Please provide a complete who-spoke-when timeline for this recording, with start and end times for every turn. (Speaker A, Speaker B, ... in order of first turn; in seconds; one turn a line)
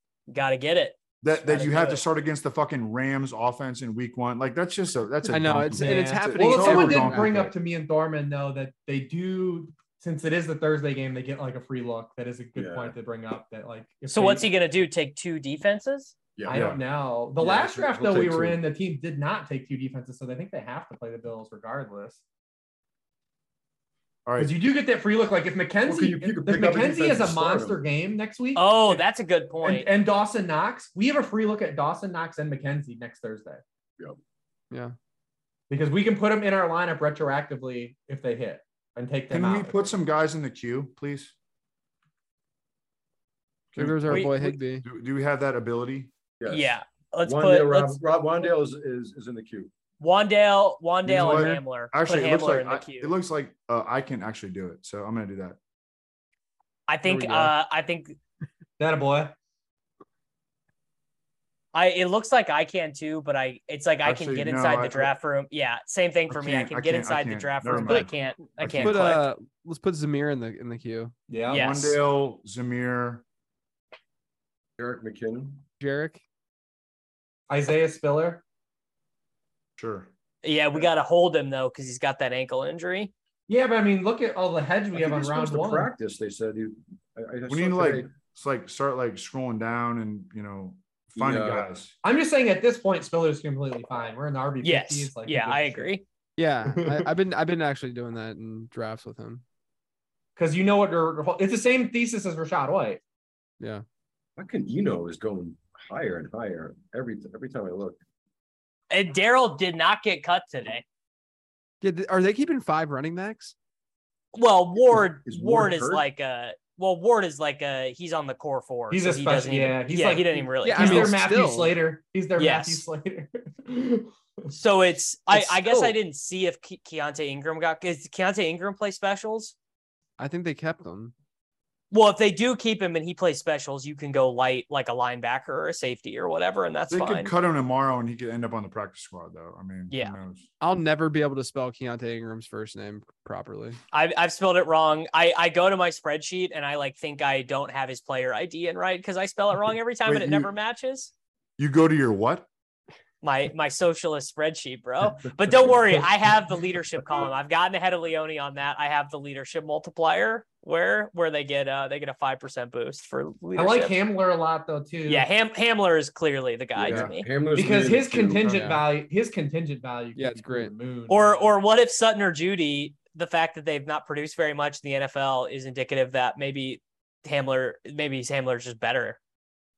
Speaker A: 0.3-2.0
Speaker B: 1.2-7.5
Speaker C: 5.3-7.3
Speaker D: 5.7-14.5
Speaker E: 12.6-12.9
Speaker A: 14.1-16.1
Speaker E: 16.4-16.7
Speaker D: 16.5-22.2
Speaker B: 16.5-16.8
Speaker E: 17.4-18.6
Speaker B: 24.2-24.6
Speaker D: 24.4-29.0
Speaker E: 25.8-27.8
Speaker A: 28.5-29.9
Speaker D: 29.6-33.6
Speaker D: 35.7-39.9
Speaker B: 39.3-41.3
Speaker B: 43.7-46.1
Speaker C: 43.8-44.8
Speaker E: 46.4-49.7
Speaker A: 46.5-48.0
Speaker A: 50.0-53.1
Speaker B: 51.0-55.6
Speaker C: 51.2-51.6
Speaker A: 56.9-58.1
Speaker C: 57.0-57.5
Speaker D: 58.8-59.3
Speaker A: 61.7-69.2
Speaker B: 64.0-65.1
Speaker B: 66.3-69.2
Speaker C: 68.8-71.1
Speaker D: 71.3-72.0
Speaker A: 71.5-72.0
Speaker B: 71.5-73.2
Speaker E: 74.8-75.6
Speaker C: 75.8-76.2
Speaker D: 77.5-78.4
Speaker B: 79.8-80.1
Speaker A: 80.4-83.1
Speaker D: 83.5-85.9
Speaker E: 84.9-88.1
Speaker B: 87.5-91.9
Speaker E: 91.2-91.7
Speaker D: 92.0-95.9
Speaker A: 94.6-96.0
Speaker C: 96.4-99.4
Speaker D: 96.7-97.1
Speaker D: 100.3-103.0
Speaker E: 104.4-108.0
Speaker A: 108.9-110.8
Speaker C: 111.8-113.5
Speaker A: 114.3-121.1
Speaker E: 114.9-116.0
Speaker D: 118.9-124.5
Speaker C: 120.6-121.7
Speaker A: 122.4-122.8
Speaker A: 124.5-129.5
Speaker C: 125.7-125.9
Speaker C: 130.2-131.1
Speaker A: 131.9-137.3
Speaker B: 136.9-140.5
Speaker A: 139.9-140.2
Speaker C: 140.6-143.8
Speaker A: 143.9-151.1
Speaker B: 150.1-150.5
Speaker B: 151.6-152.4
Speaker A: 153.2-164.0
Speaker D: 163.6-165.2
Speaker A: 165.1-167.3
Speaker E: 166.8-168.7
Speaker D: 167.5-171.4
Speaker C: 168.5-168.8
Speaker C: 170.1-170.7
Speaker A: 171.1-179.2